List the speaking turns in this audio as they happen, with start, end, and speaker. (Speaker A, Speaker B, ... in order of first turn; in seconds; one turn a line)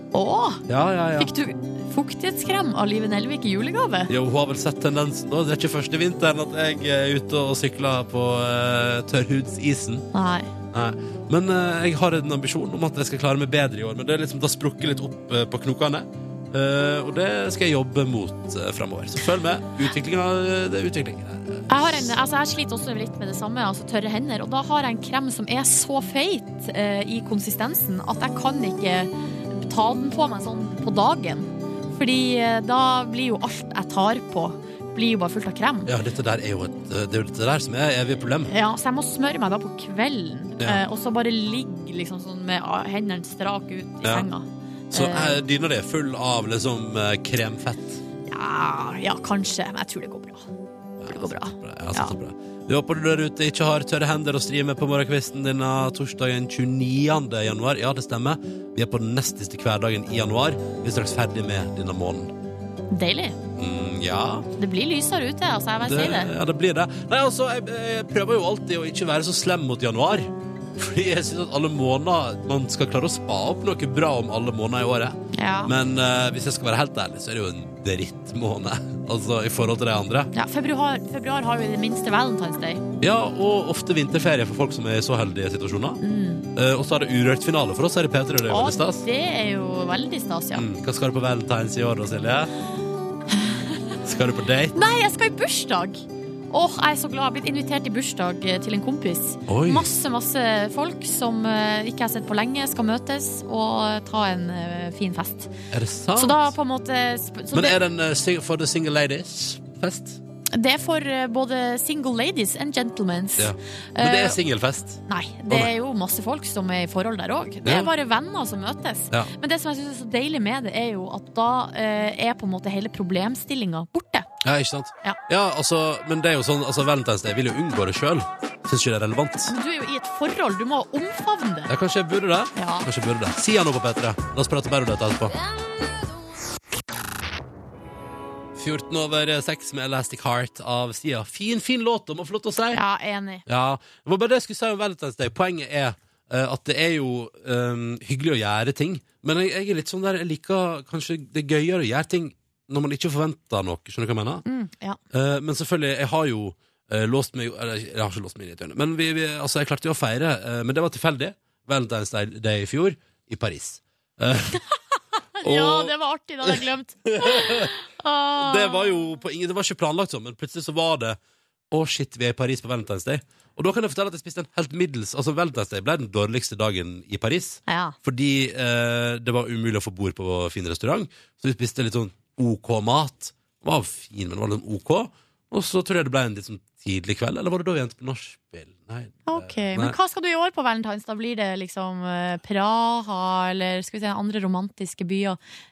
Speaker A: 0.1-0.6
Speaker B: 0.7-1.3
Speaker A: 1.2-4.1
Speaker B: 4.1-10.1
Speaker A: 10.1-10.5
Speaker B: 10.7-22.1
Speaker A: 21.7-35.9
Speaker B: 35.9-38.5
Speaker A: 38.5-45.4
Speaker B: 44.0-44.3
Speaker B: 44.9-48.0
Speaker A: 48.3-50.5
Speaker B: 51.0-62.3
Speaker A: 51.1-52.1
Speaker A: 62.9-63.4
Speaker B: 63.6-64.5
Speaker A: 64.6-66.3
Speaker B: 65.8-80.3
Speaker A: 75.3-75.7
Speaker A: 80.3-82.8
Speaker B: 83.0-86.0
Speaker A: 86.0-86.5
Speaker B: 86.5-89.1
Speaker A: 88.5-90.7
Speaker B: 90.5-92.5
Speaker A: 93.3-93.9
Speaker B: 94.0-94.8
Speaker A: 94.8-105.5
Speaker B: 99.5-99.9
Speaker B: 105.7-106.5
Speaker A: 106.2-107.8
Speaker B: 107.5-110.2
Speaker A: 110.5-114.4
Speaker B: 113.4-115.7
Speaker A: 115.1-124.3
Speaker B: 117.7-117.9
Speaker B: 124.4-129.5
Speaker A: 129.5-131.7
Speaker B: 131.7-135.4
Speaker A: 132.6-132.9
Speaker B: 138.6-142.8
Speaker A: 142.7-143.4
Speaker B: 143.5-154.4
Speaker A: 154.5-155.0
Speaker B: 155.1-164.6
Speaker A: 165.4-169.1
Speaker B: 165.4-165.9
Speaker B: 166.4-167.7
Speaker B: 168.4-171.2
Speaker B: 171.7-190.0
Speaker A: 177.7-178.0
Speaker A: 189.3-195.4